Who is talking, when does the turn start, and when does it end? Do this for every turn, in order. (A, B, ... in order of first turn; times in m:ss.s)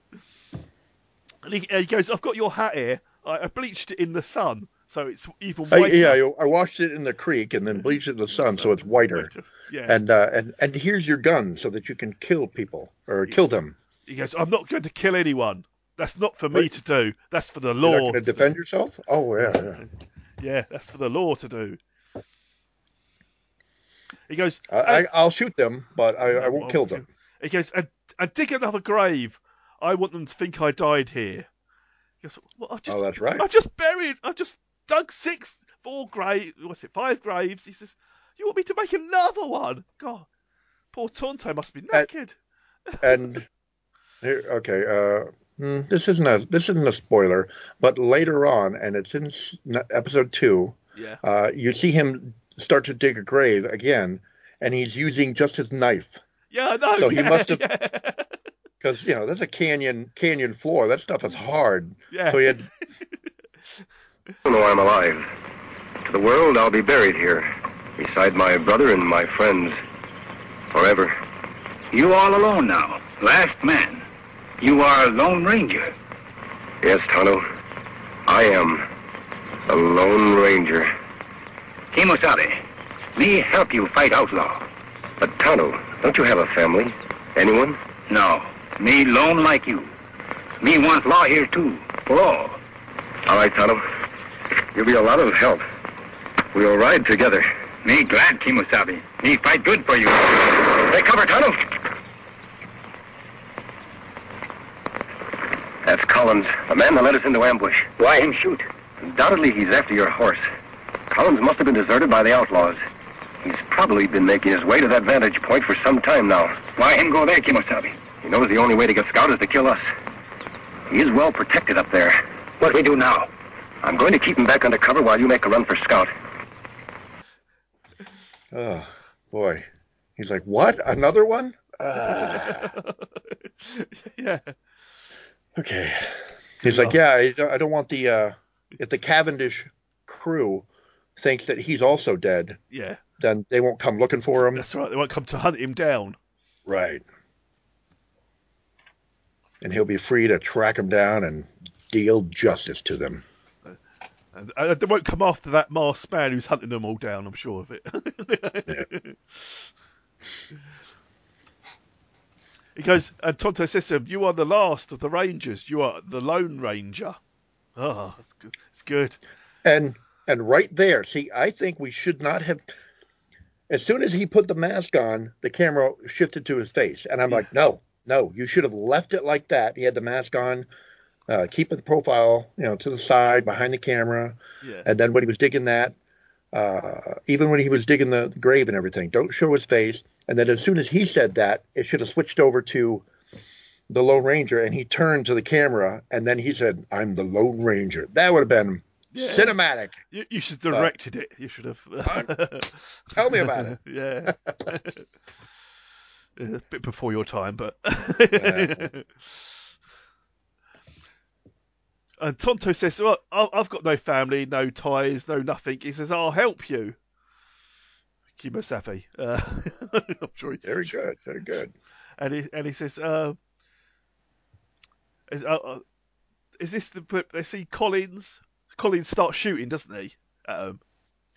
0:01.4-0:06.2 A
0:05.7-0:09.3 B
0:08.3-0:10.0 A
0:09.9-0:13.8 B
0:14.1-0:18.5 A
0:17.8-0:19.8 B
0:19.4-0:21.8 A
0:24.3-0:25.1 A
0:24.7-0:27.0 B
0:26.3-0:31.5 A
0:32.2-0:40.3 A
0:32.9-0:33.4 B
0:40.9-0:42.4 A
0:42.9-0:43.3 A
0:43.0-0:43.4 B
0:44.2-0:56.2 B
0:51.0-0:51.2 A
0:56.5-0:58.4 A
0:57.0-0:57.7 B
0:58.8-1:02.7 B
1:02.1-1:02.7 A
1:04.4-1:05.3 C
1:06.0-1:09.8 C
1:10.7-1:11.1 C
1:11.9-1:14.1 D
1:14.6-1:15.9 D
1:16.8-1:17.4 C
1:18.3-1:18.9 C
1:19.7-1:20.9 C
1:21.9-1:22.6 D
1:23.1-1:24.6 D
1:25.2-1:27.8 C
1:28.1-1:29.9 D
1:30.6-1:32.6 D
1:33.3-1:33.8 C
1:34.7-1:35.6 C
1:36.5-1:37.5 C
1:37.8-1:40.7 D
1:40.7-1:41.6 C
1:45.8-1:47.9 C
1:48.0-1:48.6 D
1:49.0-1:50.4 C
1:51.1-1:52.8 C
1:53.4-1:56.6 C
1:56.7-1:58.0 D
1:58.2-1:59.8 C
2:00.9-2:02.2 C
2:02.6-2:03.3 D
2:03.8-2:06.1 C
2:08.5-2:09.6 B
2:10.2-2:12.7 B
2:11.9-2:14.5 A
2:15.6-2:20.6 B
2:16.6-2:17.0 A
2:21.2-2:22.6 B
2:22.7-2:23.0 A
2:23.2-2:24.6 B
2:24.5-2:26.2 A
2:26.6-2:27.0 B
2:29.6-2:33.2 B
2:34.3-2:39.7 A
2:42.7-2:47.2 A
2:47.8-2:49.2 A
2:49.6-2:52.7 B
2:53.7-3:00.7 B
3:01.3-3:06.0 B
3:04.6-3:04.9 A
3:06.5-3:13.1 B
3:13.9-3:20.0 B
3:19.1-3:25.1 A
3:22.0-3:22.3 B
3:23.2-3:24.4 B
3:26.4-3:29.6 A
3:28.3-3:28.9 B
3:32.2-3:37.0 A
3:38.4-3:40.9 A
3:40.6-3:41.7 B
3:42.2-3:43.4 A
3:45.3-3:45.8 A
3:46.6-3:50.8 A